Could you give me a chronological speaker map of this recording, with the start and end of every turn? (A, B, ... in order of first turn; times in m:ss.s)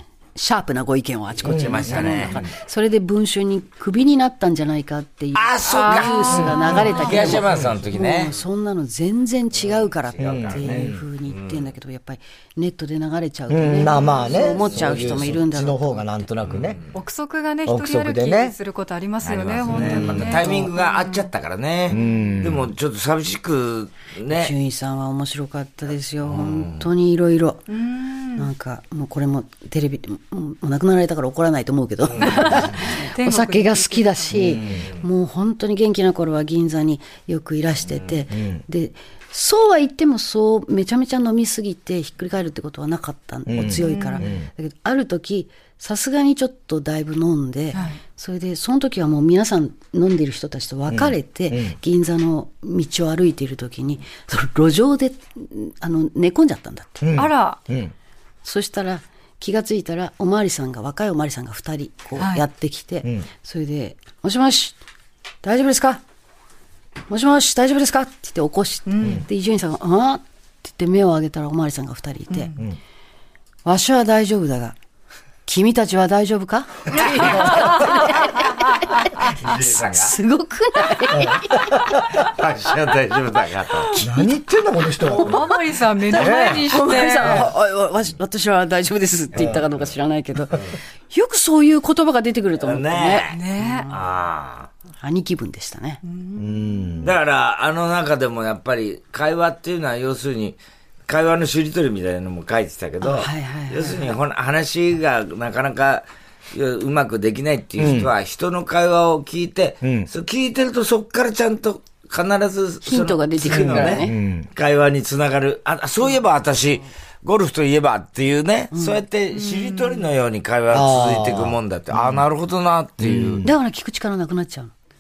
0:00.4-0:16.3 A
0:01.4-0:02.2 B
0:01.5-0:02.5 C
0:05.3-0:08.4 C
0:05.7-0:07.5 D
0:09.7-0:11.7 C
0:10.2-0:11.0 B
0:13.5-0:16.8 B
0:13.7-0:15.3 C
0:16.4-0:16.9 C
0:16.9-0:21.3 D
0:17.7-0:18.6 B
0:19.2-0:24.5 C
0:19.7-0:20.7 B
0:21.9-0:22.7 B
0:24.3-0:27.6 A
0:26.2-0:26.9 C
0:27.7-0:28.5 D
0:28.4-0:57.2 A
0:32.1-0:32.9 C
0:32.3-0:34.2 D
0:34.3-0:34.8 B
0:34.4-0:35.0 C
0:37.9-0:38.2 C
0:38.3-0:38.6 B
0:43.5-0:44.5 B
0:43.8-0:44.3 D
0:47.7-0:48.0 D
0:50.9-0:51.8 B
0:57.0-0:57.9 B
0:57.2-0:57.6 D
0:58.4-1:04.8 A
1:02.2-1:02.4 D
1:05.4-1:06.0 A
1:07.1-1:12.5 A
1:08.9-1:09.2 D
1:12.3-1:12.6 D
1:13.6-1:14.8 A
1:15.5-1:22.0 A
1:16.9-1:17.9 C
1:19.1-1:20.2 C
1:21.1-1:22.0 B
1:22.0-1:24.0 C
1:23.9-1:24.4 A
1:24.0-1:25.5 B
1:25.0-1:27.5 D
1:25.1-1:25.6 A
1:26.1-1:27.4 B
1:26.1-1:34.0 A
1:32.6-1:34.7 C
1:33.3-1:33.9 D
1:35.0-1:36.0 A
1:36.0-1:36.6 D
1:36.4-1:37.2 B
1:37.0-2:03.5 C
1:43.0-1:44.2 A
1:47.8-1:48.1 B
1:49.8-1:50.1 B
1:52.8-1:54.2 A
1:53.4-1:54.5 B
1:58.7-1:59.0 A
1:59.4-2:00.0 D
2:00.7-2:02.2 B
2:03.0-2:03.5 B
2:03.4-2:04.7 A